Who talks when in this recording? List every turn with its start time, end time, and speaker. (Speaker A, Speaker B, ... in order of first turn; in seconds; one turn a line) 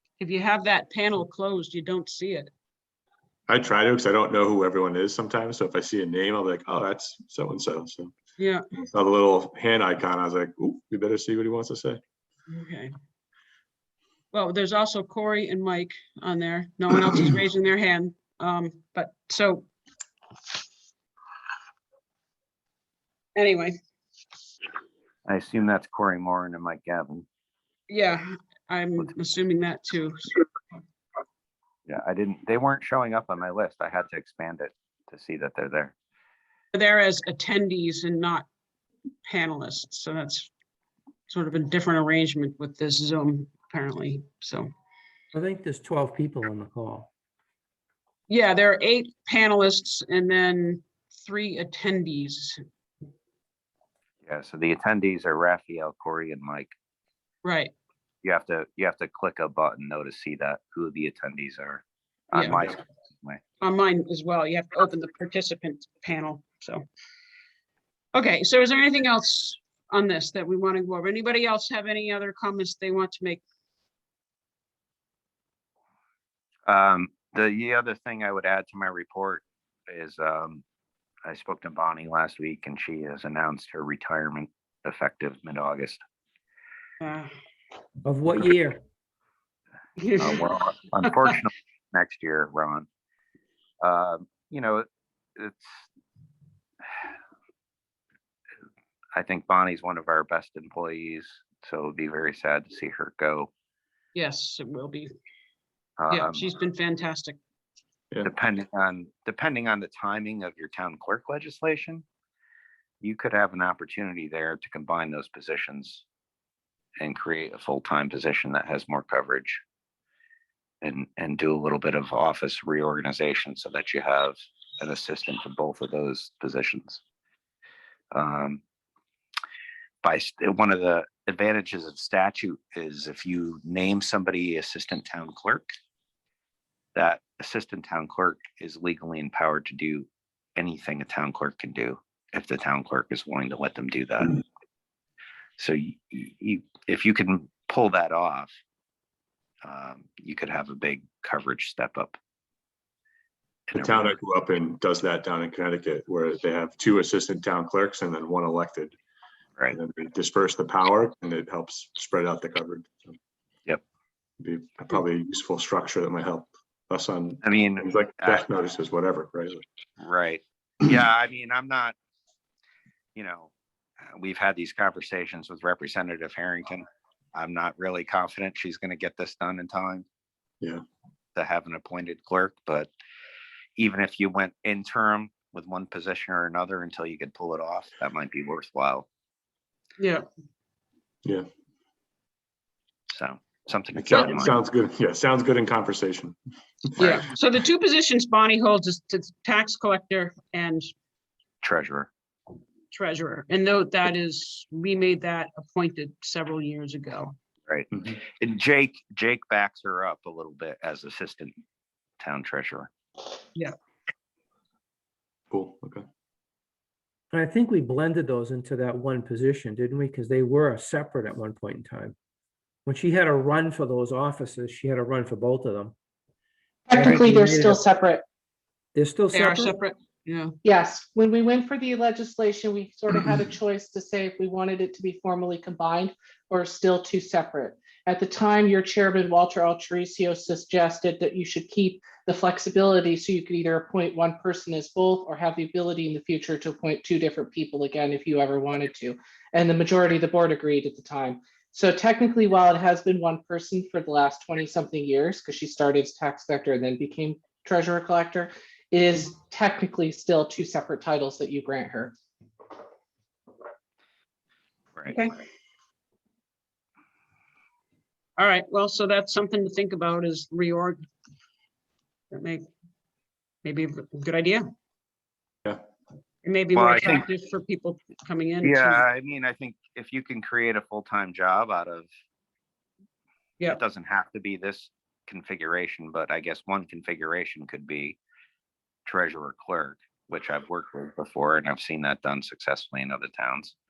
Speaker A: 0.2-2.5
Speaker B: 3.5-8.1
Speaker A: 8.4-8.6
Speaker B: 8.9-12.0
Speaker A: 12.5-12.9
Speaker A: 14.3-19.6
Speaker A: 23.4-23.7
Speaker C: 25.2-27.2
Speaker A: 27.9-30.3
Speaker C: 31.9-35.9
Speaker A: 36.7-38.5
Speaker A: 39.2-40.5
Speaker A: 41.3-44.7
Speaker D: 45.3-47.1
Speaker A: 48.3-52.6
Speaker C: 54.2-56.7
Speaker A: 57.4-57.7
Speaker C: 58.2-63.4
Speaker A: 62.3-62.7
Speaker A: 63.6-66.8
Speaker A: 68.1-73.4
Speaker C: 76.7-80.6
Speaker C: 81.2-86.0
Speaker A: 87.0-87.3
Speaker D: 88.0-88.8
Speaker A: 90.0-90.5
Speaker C: 90.2-92.9
Speaker C: 93.8-94.8
Speaker C: 95.4-95.8
Speaker C: 99.1-103.5
Speaker A: 104.1-105.1
Speaker C: 106.0-106.4
Speaker A: 106.1-107.4
Speaker C: 108.2-112.0
Speaker C: 113.0-116.0
Speaker C: 117.0-119.6
Speaker C: 120.8-127.0
Speaker C: 128.1-128.6
Speaker C: 130.0-135.7
Speaker C: 136.9-144.4
Speaker C: 145.6-148.5
Speaker C: 149.6-152.2
Speaker B: 153.7-158.9
Speaker C: 153.7-154.1
Speaker B: 159.7-163.1
Speaker B: 164.4-169.6
Speaker C: 167.4-168.4
Speaker C: 170.0-171.9
Speaker C: 173.2-173.5
Speaker C: 174.1-180.0
Speaker C: 181.3-182.9
Speaker C: 183.8-189.1
Speaker A: 190.0-190.2
Speaker C: 193.1-194.6
Speaker B: 193.9-196.3
Speaker A: 197.0-200.9
Speaker C: 201.6-202.1
Speaker A: 202.9-207.3
Speaker C: 207.7-211.5
Speaker C: 212.2-212.9
Speaker B: 215.5-216.0
Speaker D: 217.3-222.2
Speaker D: 222.8-225.9
Speaker E: 226.9-228.2
Speaker D: 226.9-227.8
Speaker D: 228.9-229.7
Speaker A: 229.3-230.5
Speaker E: 230.6-262.1
Speaker A: 265.1-265.4
Speaker A: 268.4-271.0
Speaker A: 272.3-272.6
Speaker A: 273.6-274.6
Speaker A: 276.4-279.0
Speaker C: 276.7-277.2
Speaker C: 278.6-282.1
Speaker C: 283.7-288.2
Speaker C: 289.1-293.7